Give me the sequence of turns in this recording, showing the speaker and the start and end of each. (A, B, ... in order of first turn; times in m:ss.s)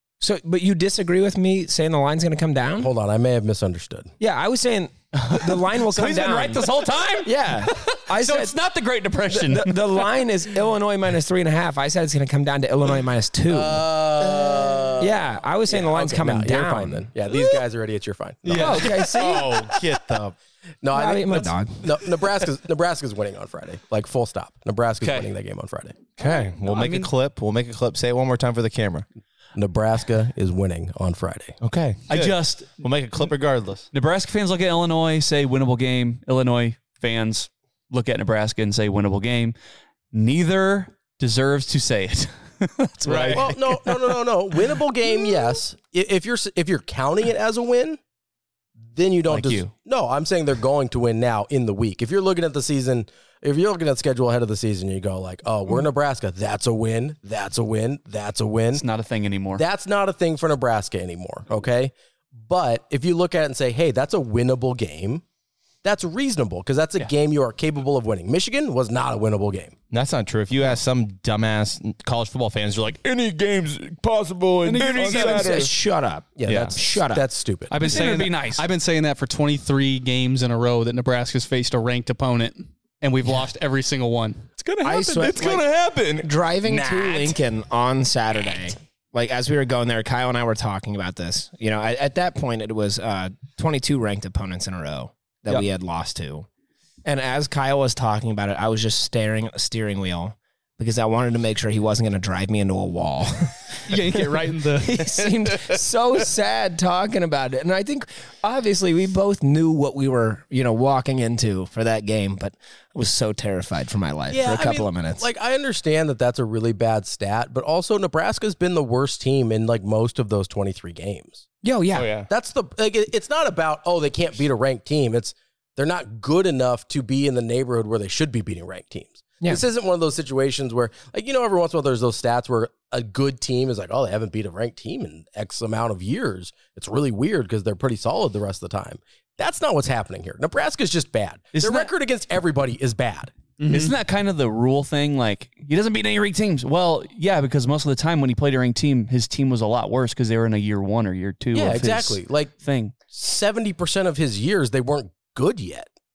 0:00.2-0:02.9 A
0:02.8-0:04.1 B
0:04.2-0:06.6 A
0:05.2-0:10.0 C
0:07.2-0:08.6 A
0:09.3-0:14.3 A
0:13.5-0:15.2 B
0:15.0-0:17.1 A
0:15.7-0:19.0 B
0:18.4-0:19.2 C
0:18.5-0:19.6 A
0:19.1-0:20.3 D
0:20.8-0:26.0 B
0:20.9-0:22.0 A
0:25.0-0:25.3 C
0:26.2-0:29.0 D
0:26.2-0:27.1 C
0:29.6-0:31.6 B
0:31.6-0:33.8 D
0:32.1-0:32.8 C
0:33.9-0:39.5 C
0:40.1-0:43.9 C
0:43.1-0:43.4 E
0:43.3-0:48.0 B
0:48.9-0:58.8 B
0:49.3-0:49.7 C
0:58.7-0:59.6 C
0:59.6-1:05.2 B
1:05.8-1:09.7 B
1:09.9-1:15.7 D
1:14.7-1:15.4 E
1:14.8-1:17.3 A
1:16.4-1:17.7 B
1:16.4-1:16.8 D
1:17.7-1:24.5 E
1:17.8-1:18.6 C
1:24.6-1:27.4 D
1:24.8-1:25.7 A
1:26.2-1:36.5 A
1:37.0-1:55.2 A
1:43.9-1:45.0 E
1:54.3-2:01.5 B
2:01.6-2:02.1 A
2:01.9-2:02.3 D
2:02.3-2:23.3 B
2:21.5-2:21.9 C
2:23.6-2:23.9 E
2:23.7-2:32.9 C
2:31.5-2:32.5 B
2:33.1-2:35.9 B